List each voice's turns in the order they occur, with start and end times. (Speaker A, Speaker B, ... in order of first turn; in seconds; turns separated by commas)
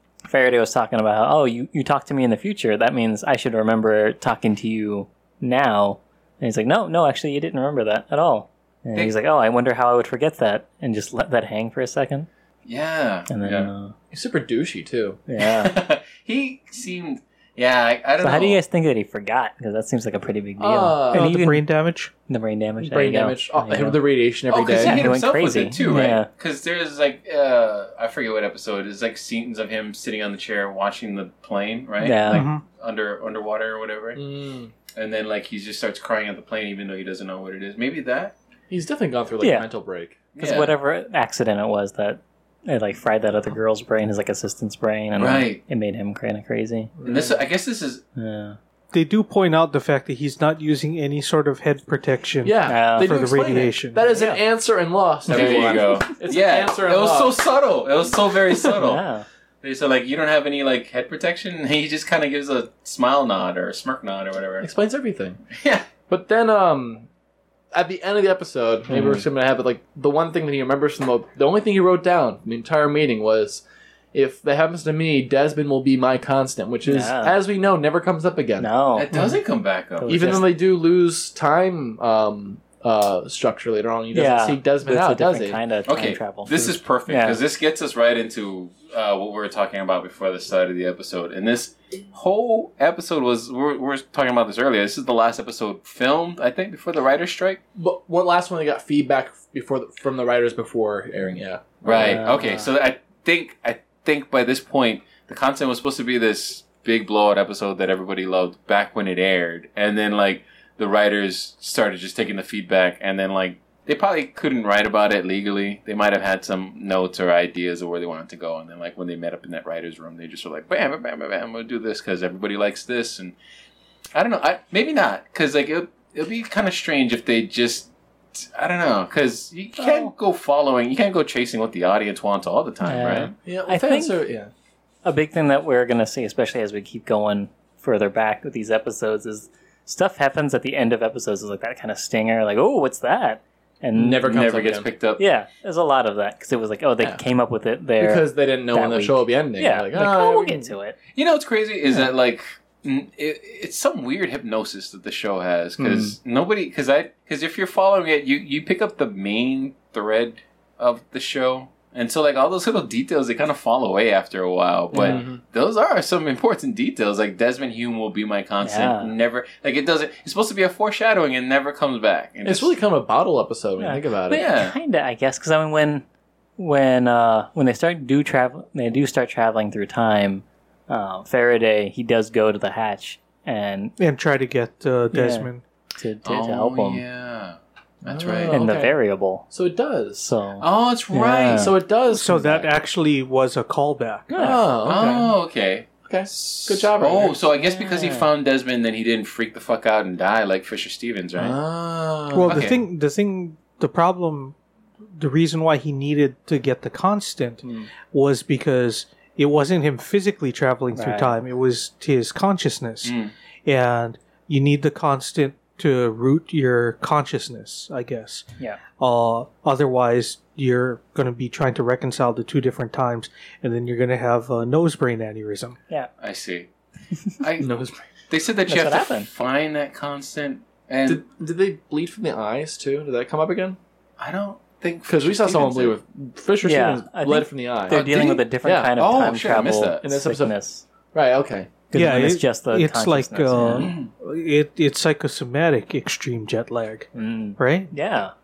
Speaker A: 0.2-12.3, Speaker B: 12.7-13.7, Speaker A: 13.3-13.9, Speaker C: 14.1-15.2, Speaker A: 15.3-15.7, Speaker B: 15.4-18.6, Speaker A: 18.2-21.6, Speaker C: 20.6-21.3, Speaker D: 21.1-22.1, Speaker A: 22.3-24.0, Speaker C: 22.8-25.1, Speaker B: 24.5-34.2, Speaker A: 24.8-26.3, Speaker A: 32.0-32.5, Speaker D: 32.3-32.6, Speaker C: 34.1-34.7, Speaker B: 34.9-38.3, Speaker C: 38.7-40.2, Speaker A: 39.4-39.7, Speaker B: 40.3-40.7, Speaker A: 40.4-46.9, Speaker B: 45.2-45.6, Speaker C: 47.0-47.4, Speaker B: 47.0-48.0, Speaker A: 48.2-48.6, Speaker D: 48.9-54.1, Speaker C: 52.4-57.4, Speaker A: 52.7-53.2, Speaker A: 54.1-54.4, Speaker B: 55.3-59.0, Speaker A: 55.3-55.7, Speaker A: 58.7-59.2, Speaker B: 59.6-64.7, Speaker C: 64.6-65.4, Speaker B: 65.5-65.9, Speaker C: 66.1-67.1, Speaker C: 67.7-79.3, Speaker A: 68.9-69.2, Speaker A: 76.8-77.3, Speaker A: 78.6-79.1, Speaker B: 79.0-80.4, Speaker A: 80.0-80.5, Speaker C: 80.0-85.6, Speaker A: 84.1-87.4, Speaker B: 85.9-97.6, Speaker C: 97.8-102.2, Speaker B: 101.8-123.3, Speaker A: 101.9-102.7, Speaker B: 124.1-133.3, Speaker A: 129.8-130.1, Speaker A: 132.8-134.2, Speaker C: 133.4-134.5, Speaker A: 135.0-144.4, Speaker C: 143.9-144.9, Speaker B: 144.2-145.2, Speaker A: 145.2-151.0, Speaker C: 148.0-150.7, Speaker B: 151.1-172.7, Speaker A: 155.8-156.1, Speaker C: 155.8-156.1, Speaker A: 164.9-165.2, Speaker C: 164.9-165.4, Speaker A: 168.6-169.1, Speaker C: 172.4-174.4, Speaker A: 173.8-176.0, Speaker B: 174.3-174.7, Speaker A: 176.6-183.9, Speaker D: 184.0-185.6, Speaker A: 185.1-187.0, Speaker B: 186.2-188.6, Speaker C: 188.1-188.9, Speaker A: 188.5-189.4, Speaker C: 189.5-190.3, Speaker A: 190.2-191.8, Speaker B: 190.6-191.7, Speaker C: 191.5-192.7, Speaker D: 192.1-194.3, Speaker A: 194.3-194.6, Speaker C: 194.3-195.3, Speaker B: 194.8-201.6, Speaker C: 196.0-197.4, Speaker A: 197.6-198.3, Speaker C: 201.4-202.6, Speaker D: 202.3-204.6, Speaker B: 202.4-202.8, Speaker D: 205.2-218.4, Speaker C: 207.6-207.9, Speaker A: 210.9-211.3, Speaker B: 213.0-213.3, Speaker D: 219.0-225.8, Speaker B: 226.2-226.7, Speaker B: 227.4-227.7, Speaker C: 227.6-228.0, Speaker B: 228.3-231.2, Speaker A: 228.7-229.3, Speaker C: 231.1-233.8, Speaker B: 234.2-235.9, Speaker C: 235.1-238.1, Speaker A: 236.6-240.8, Speaker B: 237.9-240.0, Speaker C: 238.6-238.9, Speaker C: 240.0-240.5, Speaker C: 241.1-241.7, Speaker A: 241.9-243.9, Speaker D: 241.9-247.9, Speaker B: 243.6-244.1, Speaker A: 247.1-248.3